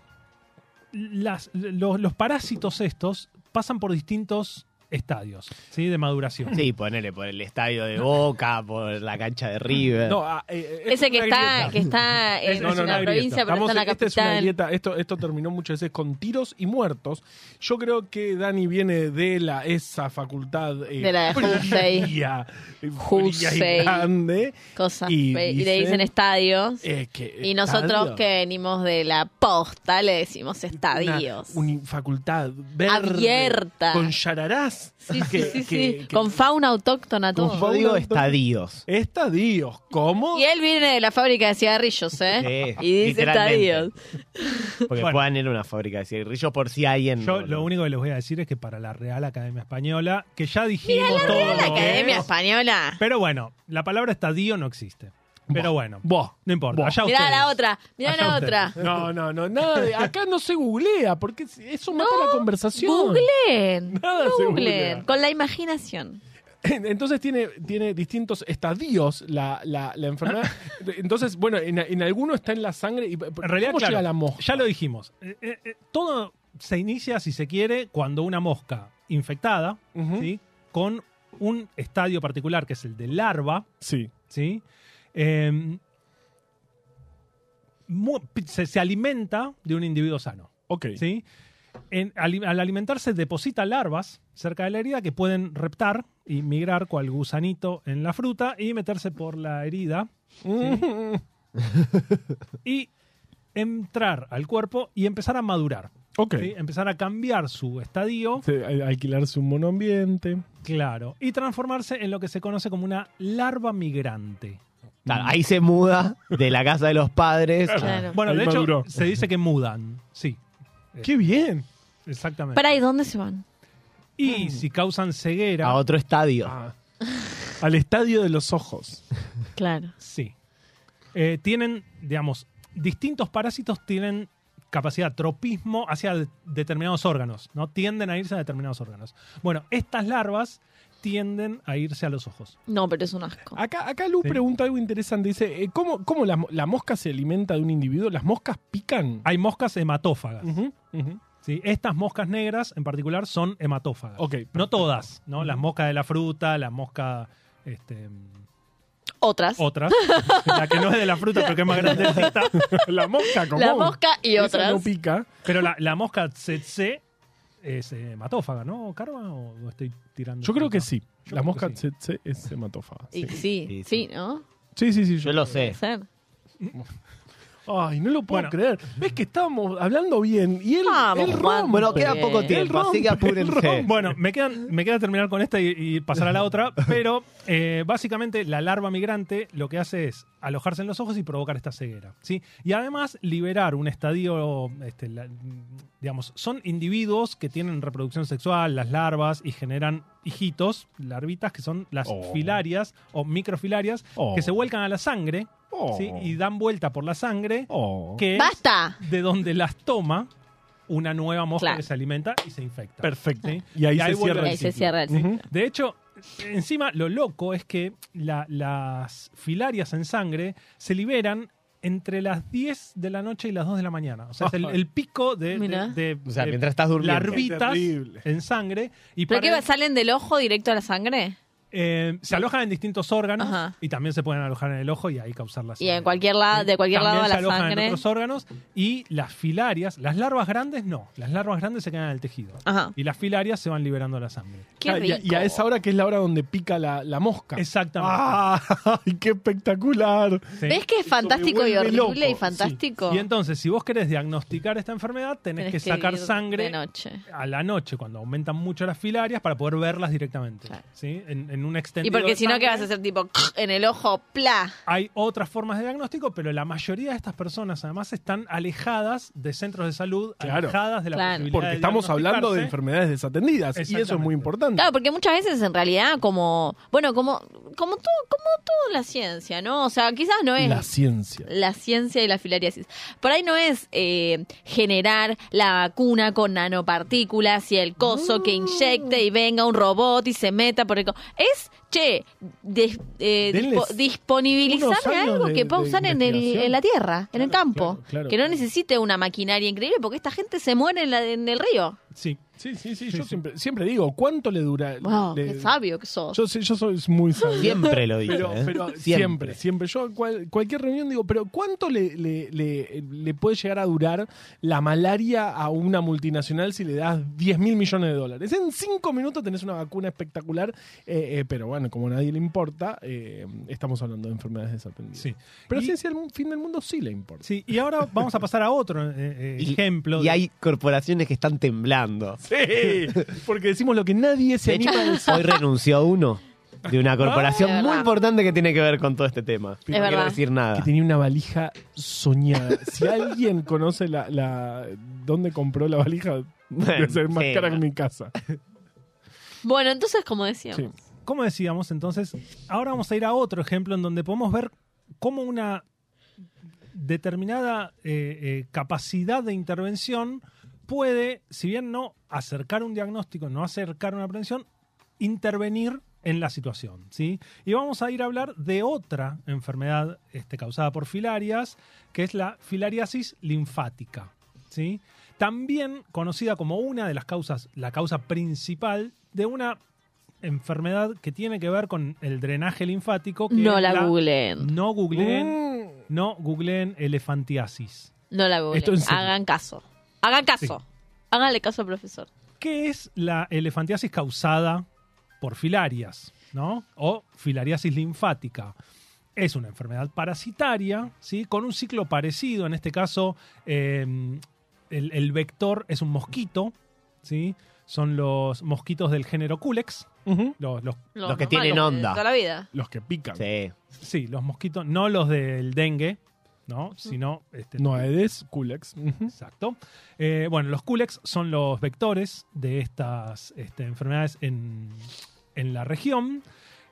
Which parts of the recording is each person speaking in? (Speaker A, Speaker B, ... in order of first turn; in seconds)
Speaker A: 0.9-6.6, 11.2-11.8, 12.4-13.4, 45.0-45.2, 47.2-52.3, 53.0-58.8, 73.4-83.7, 84.3-84.6, 85.1-85.8, 87.9-91.2, 91.9-100.8, 102.6-102.9, 103.5-108.5, 110.6-114.6, 118.1-120.4, 122.1-122.8, 124.2-125.8, 130.0-130.3, 131.1-142.6, 149.2-150.6, 151.4-158.4, 159.6-162.7, 165.4-167.0, 167.6-171.8, 178.3-178.6, 183.8-210.3, 210.9-214.7, 215.5-229.6, 231.7-244.7, 247.6-248.4, 250.6-250.8, 253.1-262.9, 264.9-272.7, 273.7-274.5, 302.1-302.4, 303.1-303.4, 325.2-325.9, 327.4-330.4, 351.2-355.8, 356.9-364.6, 365.2-379.8, 380.4-388.1, 392.6-394.9, 395.4-398.8, 399.4-410.1, 410.6-411.0, 414.0-418.1, 419.3-426.4
Speaker B: 6.5-10.2, 37.4-38.8, 42.3-43.9, 44.9-47.7, 115.0-118.1, 125.6-126.5, 173.7-174.1, 175.2-175.8, 181.7-183.9, 226.2-227.4, 307.6-309.6, 329.6-332.4, 334.6-340.9, 346.7-347.8, 411.2-412.2, 413.4-413.7
Speaker C: 10.0-11.9, 12.5-26.1, 26.8-28.2, 30.7-36.4, 37.3-40.5, 51.2-52.2, 55.5-57.0, 58.8-63.3, 63.9-65.1, 66.6-74.7, 79.9-80.3, 83.8-84.1, 90.7-91.0, 100.4-101.2, 106.2-106.5, 108.4-110.4, 115.1-115.3, 117.7-119.0, 121.0-121.7, 124.2-124.6, 126.4-126.7, 127.6-129.1, 143.5-149.2, 150.4-151.2, 154.2-155.6, 162.0-165.3, 170.4-173.4, 174.8-175.7, 177.7-184.1, 202.0-202.6, 204.2-204.6, 205.7-206.3, 207.7-208.2, 213.0-215.4, 224.4-224.7, 227.3-228.2, 244.8-252.8, 270.4-270.8, 271.5-274.9, 280.6-281.5, 288.0-289.2, 293.5-294.0, 294.6-296.8, 297.3-298.6, 302.6-305.7, 306.3-327.4, 332.4-335.6, 336.9-337.8, 339.9-348.3, 385.1-386.0, 388.7-389.3, 410.2-410.6, 412.7-413.4, 417.8-419.3
Speaker D: 10.9-14.5, 21.0-22.1, 23.0-24.1, 24.8-26.9, 27.4-31.6, 32.9-34.1, 35.1-37.6, 40.3-44.9, 50.8-53.0, 57.0-58.8, 61.9-66.2, 117.8-118.1, 122.5-123.4, 129.6-129.9, 142.7-143.6, 159.2-164.9, 173.1-174.4, 175.5-176.1, 180.8-182.6, 208.3-209.0, 214.3-215.4, 225.5-225.9, 229.3-231.4, 233.4-233.7, 235.8-238.0, 242.6-242.9, 244.8-245.6, 250.7-253.2, 255.6-257.2, 262.0-264.7, 271.1-271.5, 274.8-280.9, 281.4-302.0, 305.0-306.4, 307.4-307.9, 334.9-335.4, 337.4-338.1, 339.9-340.4, 349.6-350.9, 383.5-384.7, 388.3-392.3, 411.1-412.7